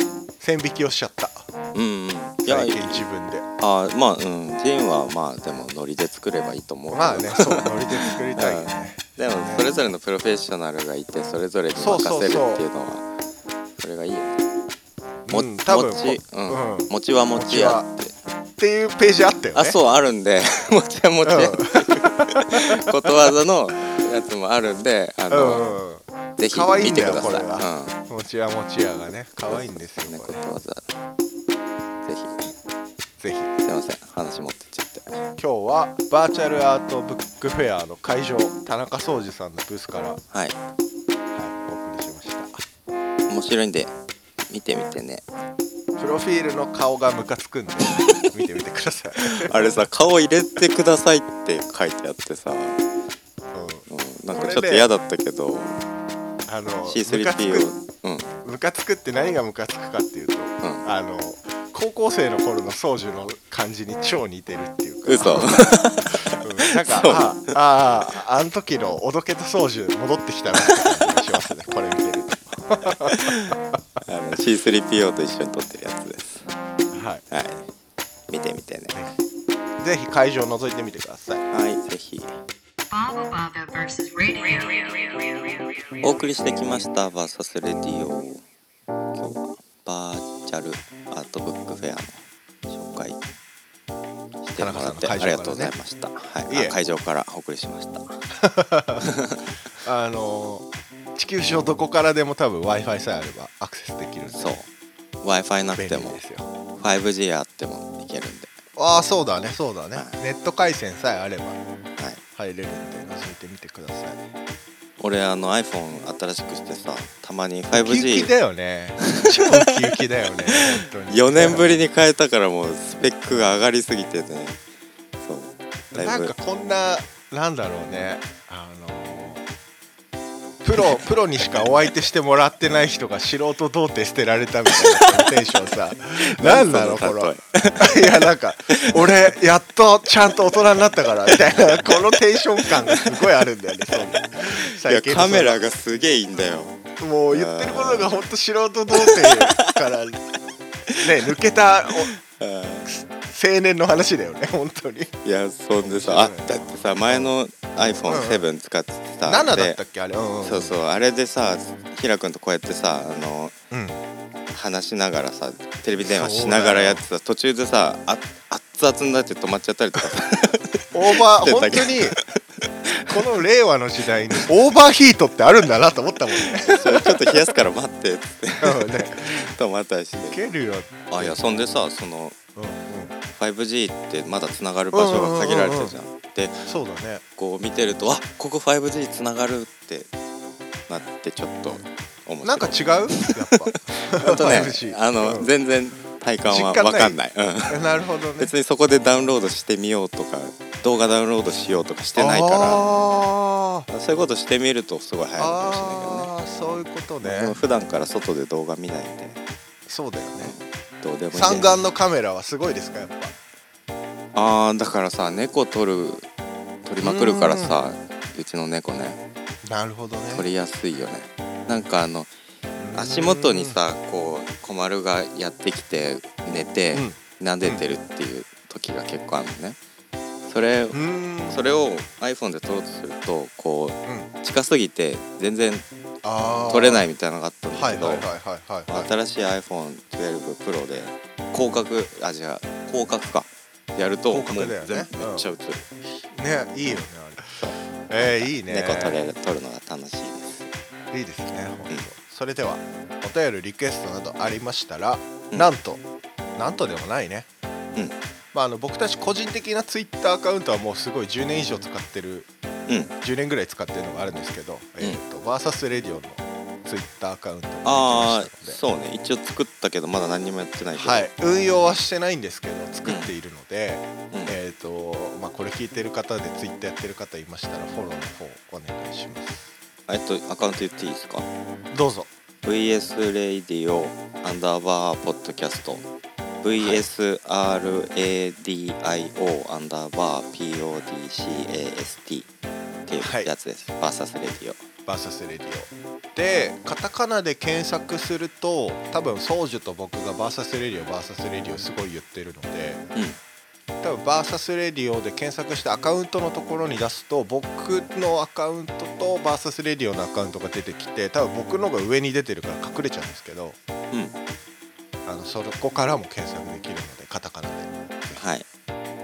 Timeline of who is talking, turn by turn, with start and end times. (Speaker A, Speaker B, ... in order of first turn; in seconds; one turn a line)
Speaker A: 0.4-1.5
Speaker B: 1.7-3.0
Speaker A: 2.4-3.5
Speaker B: 3.6-13.0
Speaker A: 6.9-9.7
Speaker A: 11.8-12.6
Speaker B: 13.8-14.4
Speaker A: 15.2-17.9
Speaker B: 15.3-18.1
Speaker A: 18.6-19.8
Speaker B: 19.5-25.7
Speaker A: 21.2-23.1
Speaker A: 25.3-30.4
Speaker B: 26.4-27.9
Speaker B: 29.4-30.8
Speaker B: 32.0-32.5
Speaker A: 33.2-33.5
Speaker B: 33.6-35.2
Speaker A: 35.4-40.2
Speaker B: 40.3-40.6
Speaker A: 41.3-42.6
Speaker B: 43.3-43.9
Speaker B: 44.5-45.2
Speaker A: 46.0-49.9
Speaker B: 47.8-48.3
Speaker B: 49.2-52.8
Speaker A: 53.5-54.9
Speaker B: 53.9-55.8
Speaker A: 56.5-57.7
Speaker B: 56.9-58.3
Speaker A: 58.4-73.5
Speaker B: 65.1-67.5
Speaker B: 70.6-71.2
Speaker B: 72.8-76.5
Speaker A: 76.9-77.2
Speaker B: 77.3-77.7
Speaker B: 78.3-79.0
Speaker A: 79.8-81.5
Speaker B: 81.5-82.4
Speaker C: 82.9-86.0
Speaker B: 86.0-88.4
Speaker B: 89.1-93.2
Speaker B: 94.4-98.2
Speaker A: 94.6-95.7
Speaker A: 96.5-96.7
Speaker A: 98.3-99.0
Speaker B: 99.0-99.4
Speaker A: 99.8-104.6
Speaker B: 104.3-104.7
Speaker B: 105.2-106.2
Speaker A: 105.8-106.5
Speaker B: 106.8-108.5
Speaker A: 108.8-111.6
Speaker B: 109.9-110.2
Speaker A: 112.3-114.2
Speaker B: 115.0-118.3
Speaker A: 117.7-121.8
Speaker B: 119.0-119.7
Speaker B: 120.5-124.6
Speaker A: 123.3-123.6
Speaker B: 125.2-126.3
Speaker A: 125.9-129.4
Speaker A: 130.6-145.6
Speaker B: 134.8-135.3
Speaker B: 136.2-138.2
Speaker B: 138.7-139.1
Speaker B: 141.3-143.1
Speaker B: 143.9-146.8
Speaker A: 147.0-150.2
Speaker B: 147.3-148.2
Speaker B: 148.9-149.7
Speaker A: 151.0-152.1
Speaker B: 151.8-152.9
Speaker A: 152.8-155.1
Speaker B: 155.2-159.8
Speaker A: 155.8-158.4
Speaker A: 159.2-160.8
Speaker B: 160.4-163.5
Speaker A: 163.7-164.0
Speaker B: 164.5-173.1
Speaker A: 166.0-167.0
Speaker A: 170.9-172.2
Speaker A: 173.1-177.3
Speaker B: 176.4-180.4
Speaker A: 178.6-179.5
Speaker A: 180.2-181.6
Speaker B: 181.1-182.4
Speaker A: 182.6-183.1
Speaker B: 183.3-186.6
Speaker A: 184.9-185.9
Speaker A: 186.6-187.2
Speaker B: 187.4-190.1
Speaker B: 190.9-197.8
Speaker A: 192.4-195.5
Speaker A: 196.4-197.2
Speaker A: 197.7-198.5
Speaker B: 198.4-202.9
Speaker A: 202.2-203.9
Speaker B: 203.9-206.3
Speaker A: 205.4-207.6
Speaker B: 207.2-209.4
Speaker A: 209.8-210.6
Speaker B: 210.4-211.8
Speaker A: 211.3-213.3
Speaker B: 214.3-216.3
Speaker B: 216.8-219.2
Speaker A: 217.0-217.8
Speaker A: 219.6-220.4
Speaker B: 220.3-222.3
Speaker A: 222.8-223.8
Speaker B: 222.9-229.8
Speaker A: 226.9-227.8
Speaker B: 230.4-235.8
Speaker A: 230.9-231.6
Speaker A: 236.2-237.1
Speaker B: 236.7-238.2
Speaker A: 237.7-239.1
Speaker B: 238.9-245.8
Speaker A: 244.3-245.5
Speaker A: 246.3-249.2
Speaker B: 247.6-250.7
Speaker A: 251.1-256.0
Speaker A: 256.6-257.5
Speaker A: 258.5-262.5
Speaker B: 262.9-263.1
Speaker A: 263.2-268.8
Speaker B: 267.8-271.3
Speaker A: 270.9-279.7
Speaker B: 273.0-273.3
Speaker B: 274.3-274.6
Speaker B: 280.1-281.5
Speaker A: 281.9-282.3
Speaker B: 282.6-286.1
Speaker B: 286.6-292.5
Speaker A: 286.7-287.1
Speaker B: 293.1-294.8
Speaker A: 293.2-293.5
Speaker A: 295.1-303.0
Speaker A: 304.0-313.8
Speaker A: 315.2-318.5
Speaker B: 318.3-318.7